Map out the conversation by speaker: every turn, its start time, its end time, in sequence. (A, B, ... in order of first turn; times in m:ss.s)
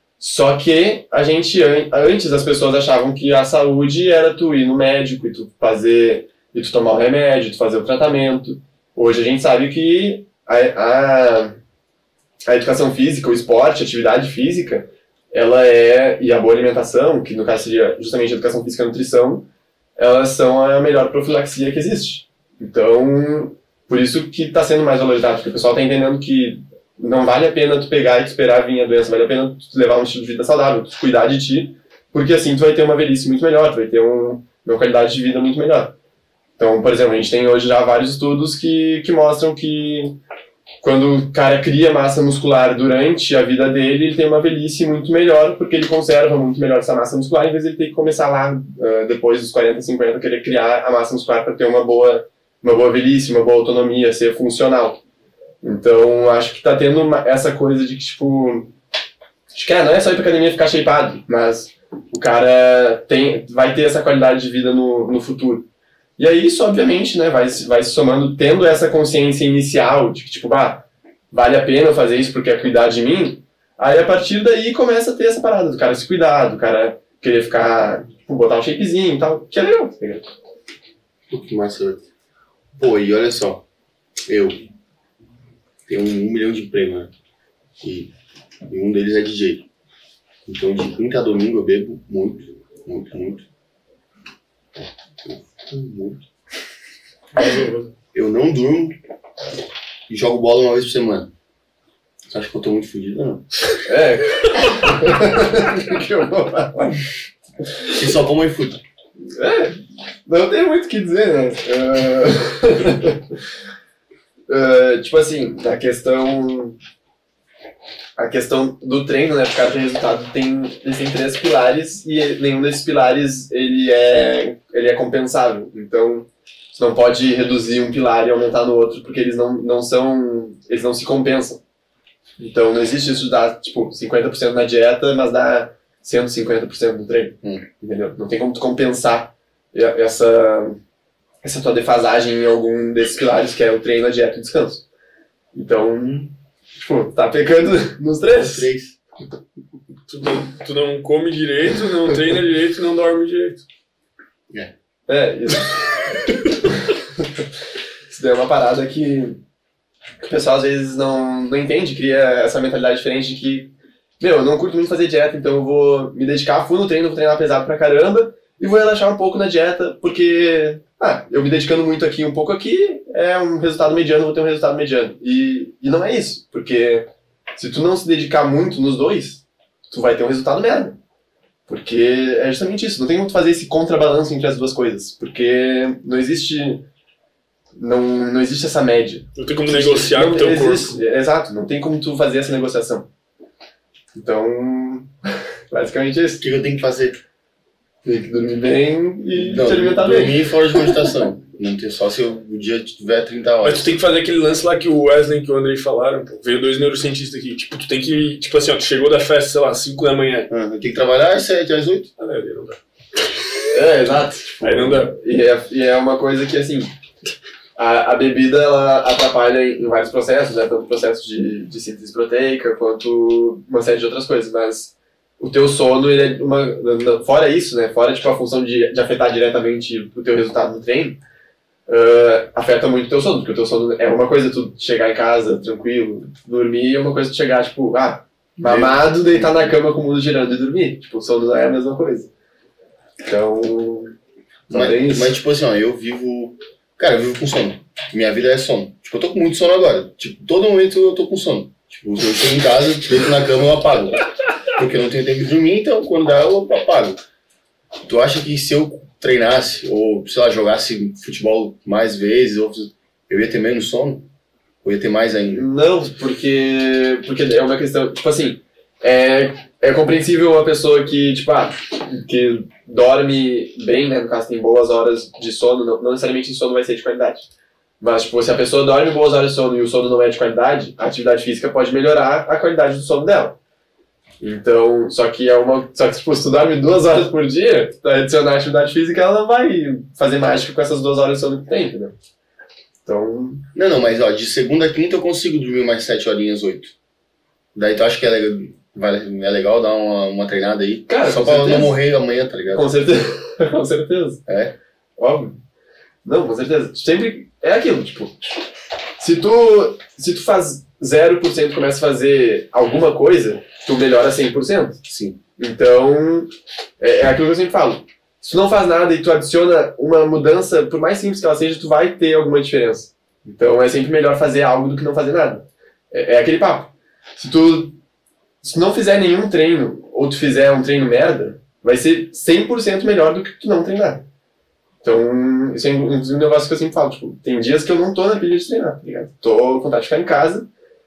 0:00.2-0:11.6 A
0:12.4-0:19.4 A
0:20.0-0:35.9 A
0:36.6-0:40.2 A
0:40.8-0:55.0 A
0:55.6-0:58.7 A
0:59.5-1:05.6 A
1:06.2-1:20.3 A
1:21.3-1:22.0 B
1:22.8-1:23.6 B
1:24.3-1:24.5 B
1:25.9-1:27.1 B
1:27.8-1:28.1 B
1:28.7-1:29.6 B
1:30.4-1:33.4 B
1:35.2-1:36.2 B
1:37.4-1:37.9 C
1:38.1-1:39.0 B
1:40.1-1:41.3 B
1:42.3-1:43.4 B
1:43.8-1:47.0 A
1:47.8-1:48.8 B
1:49.2-1:53.3 A
1:54.5-1:56.8 A
1:58.2-2:11.6 A
2:12.4-2:20.8 A
2:21.4-2:24.8 A
2:25.5-2:28.7 A
2:28.3-2:29.0 B
2:30.1-2:33.6 C
2:35.1-2:36.0 A
2:36.7-2:37.4 A
2:38.1-2:39.4 A
2:40.2-3:01.0 A
3:01.7-3:06.8 A
3:07.8-3:13.1 A
3:09.3-3:11.0 C
3:14.1-3:15.1 A
3:15.7-3:16.4 A
3:16.4-3:17.2 B
3:18.0-3:21.1 A
3:19.3-3:23.9 B
3:23.6-3:30.5 C
3:30.5-3:32.1 B
3:32.2-3:32.8 C
3:33.7-3:36.9 A
3:34.6-3:35.1 C
3:37.8-3:51.2 A
3:51.9-4:02.3 A
3:58.6-3:59.8 B
4:03.2-4:04.1 A
4:04.7-4:05.4 A
4:04.7-4:17.2 B
4:18.0-4:24.3 B
4:24.8-4:25.7 B
4:25.5-4:37.5 A
4:38.0-4:43.6 A
4:44.4-4:52.1 A
4:53.0-4:53.6 A
4:53.7-4:56.9 B
4:57.7-5:02.9 B
5:01.1-5:02.0 A
5:02.7-5:04.4 A
5:04.5-5:04.7 B
5:05.2-5:05.6 A
5:06.2-5:08.4 A
5:09.2-5:15.0 A
5:15.0-5:15.4 B
5:15.6-5:28.0 A
5:28.6-5:34.2 A
5:35.0-5:40.7 A